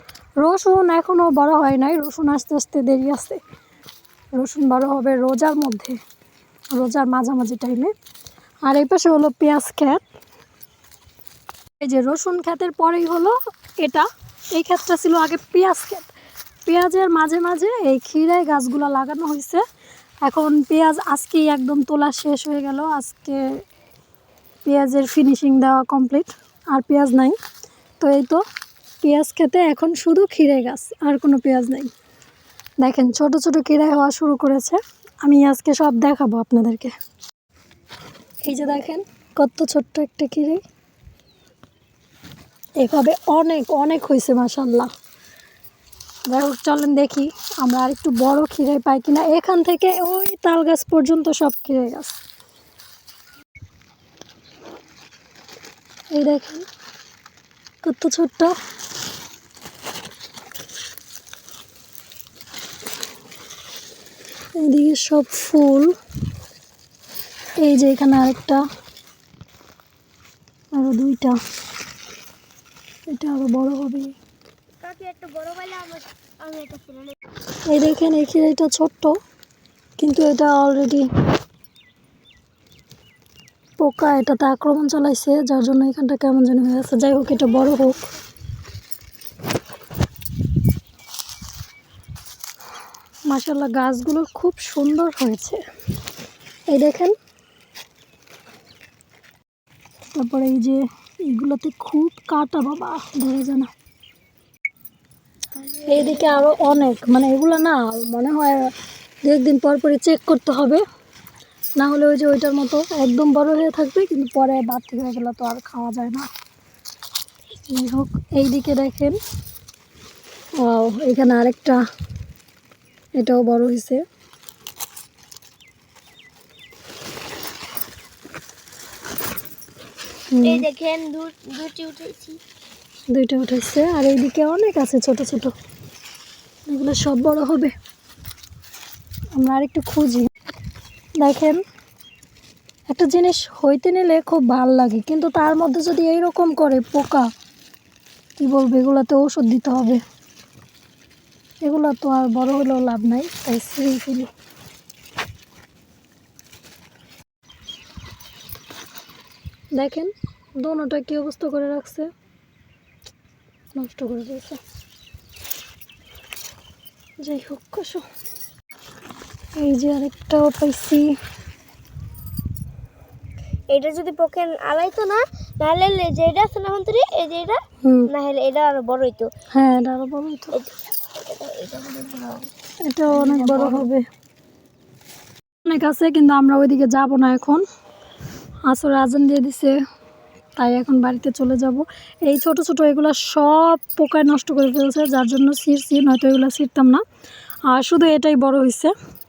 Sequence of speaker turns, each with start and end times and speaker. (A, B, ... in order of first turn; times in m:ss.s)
0:00.4-0:03.4 A
0:04.4-0:06.0 A
0:06.7-0:07.9 A
0:08.6-0:10.0 A
0:11.8-0:16.1 A
0:16.7-0:19.6 A
0:20.2-0:23.6 A
0:24.6-0:27.4 A
0:28.0-0:28.4 A
0:29.0-0:31.9 A
0:32.8-0:36.9 A
0:38.5-0:40.6 A
0:42.8-0:44.9 A
0:46.3-0:52.2 A
0:56.1-0:56.7 A
0:57.8-0:58.6 A
1:04.6-1:06.0 A
1:07.6-1:08.6 A
1:10.7-1:11.4 A
1:13.1-1:14.2 A
1:14.8-1:17.2 B
1:17.7-1:19.2 A
1:20.0-1:21.1 A
1:23.8-1:28.0 A
1:33.3-1:35.6 A
1:36.7-1:37.2 A
1:40.1-1:43.7 A
1:45.8-1:48.7 A
1:49.2-1:50.8 A
1:51.8-1:56.3 A
1:57.7-1:59.2 A
2:00.6-2:01.8 A
2:03.2-2:04.0 A
2:10.3-2:10.6 A
2:10.4-2:12.4 B
2:13.1-2:15.6 A
2:16.7-2:17.7 A
2:19.4-2:20.3 A
2:21.2-2:21.6 A
2:22.9-2:27.3 A
2:28.4-2:30.0 A
2:31.6-2:34.3 A
2:39.8-2:42.1 A
2:43.8-2:44.6 A
2:47.2-2:48.1 A
2:49.6-2:51.2 A
2:53.7-2:59.3 B
2:57.8-2:58.1 A
2:59.5-3:00.6 A
3:00.5-3:02.5 B
3:02.8-3:04.0 A
3:03.1-3:03.9 B
3:05.7-3:07.6 A
3:08.6-3:09.8 A
3:10.6-3:17.0 A
3:17.7-3:18.9 A